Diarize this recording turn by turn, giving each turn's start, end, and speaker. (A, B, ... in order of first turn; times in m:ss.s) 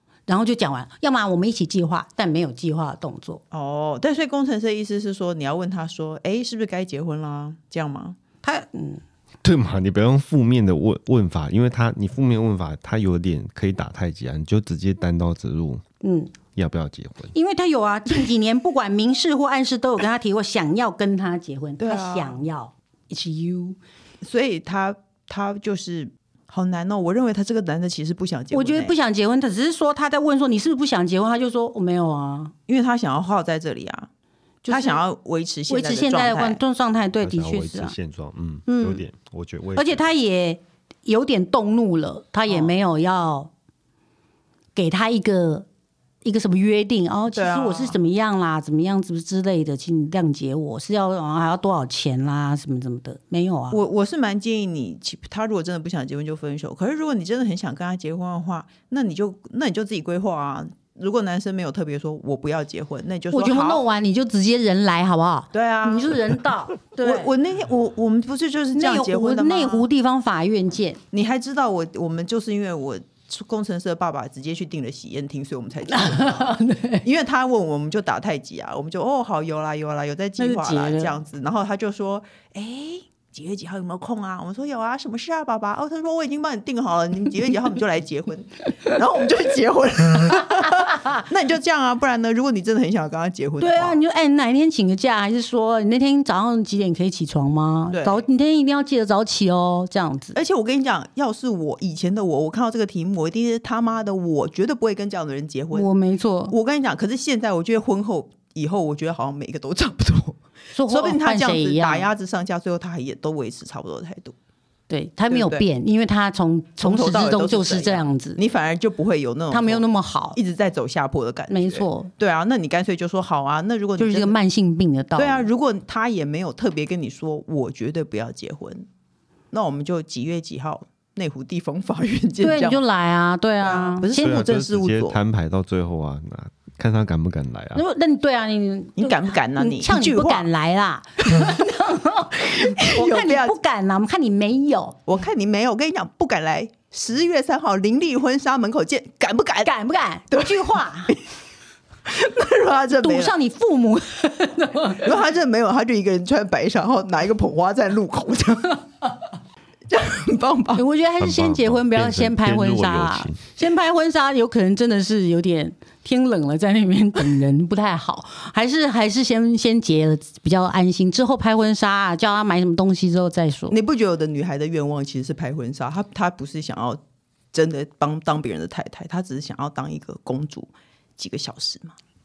0:00.3-0:03.4 A
0:03.5-0:08.2 B
0:08.4-0:09.0 A
0:09.4-0:15.8 C
0:16.0-0:16.3 A
0:16.6-0:17.3 C
0:17.3-0:23.8 A
0:21.8-0:22.4 B
0:24.2-0:29.0 B
0:28.5-0:32.5 A
0:32.7-0:34.1 B
0:34.6-0:35.0 A
0:34.7-0:36.6 B
0:35.7-0:38.0 A
0:37.2-0:40.1 C
0:38.7-0:39.0 A
0:39.7-0:43.5 A
0:42.5-0:42.8 B
0:44.8-0:45.6 A
0:46.2-0:53.8 A
0:47.3-0:48.0 B
0:53.7-1:03.8 B
1:03.3-1:07.3 A
1:05.5-1:06.1 B
1:07.0-1:09.8 B
1:08.7-1:11.0 A
1:11.1-1:34.0 B
1:15.9-1:17.0 A
1:20.4-1:21.1 A
1:30.7-1:31.1 A
1:33.6-1:40.4 A
1:37.9-1:38.2 B
1:40.3-1:45.9 B
1:45.7-1:46.5 A
1:46.5-1:54.3 B
1:50.7-1:52.1 A
1:54.9-1:58.4 A
1:55.3-1:55.7 B
1:56.8-2:04.4 B
1:59.5-2:00.4 A
2:01.5-2:02.1 A
2:04.0-2:05.4 A
2:05.2-2:08.8 B
2:09.5-2:12.8 B
2:12.4-2:14.3 A
2:13.6-2:15.2 B
2:14.2-2:17.8 C
2:17.7-2:25.0 A
2:19.0-2:20.5 B
2:22.6-2:23.6 B
2:25.1-2:29.7 B
2:29.6-2:31.1 A
2:30.3-2:31.2 B
2:32.1-2:33.3 B
2:33.0-2:35.1 A
2:35.0-2:38.8 B
2:39.9-2:40.8 B
2:40.7-2:53.7 A
2:41.2-2:43.5 C
2:53.7-2:57.0 B
2:57.5-3:02.0 B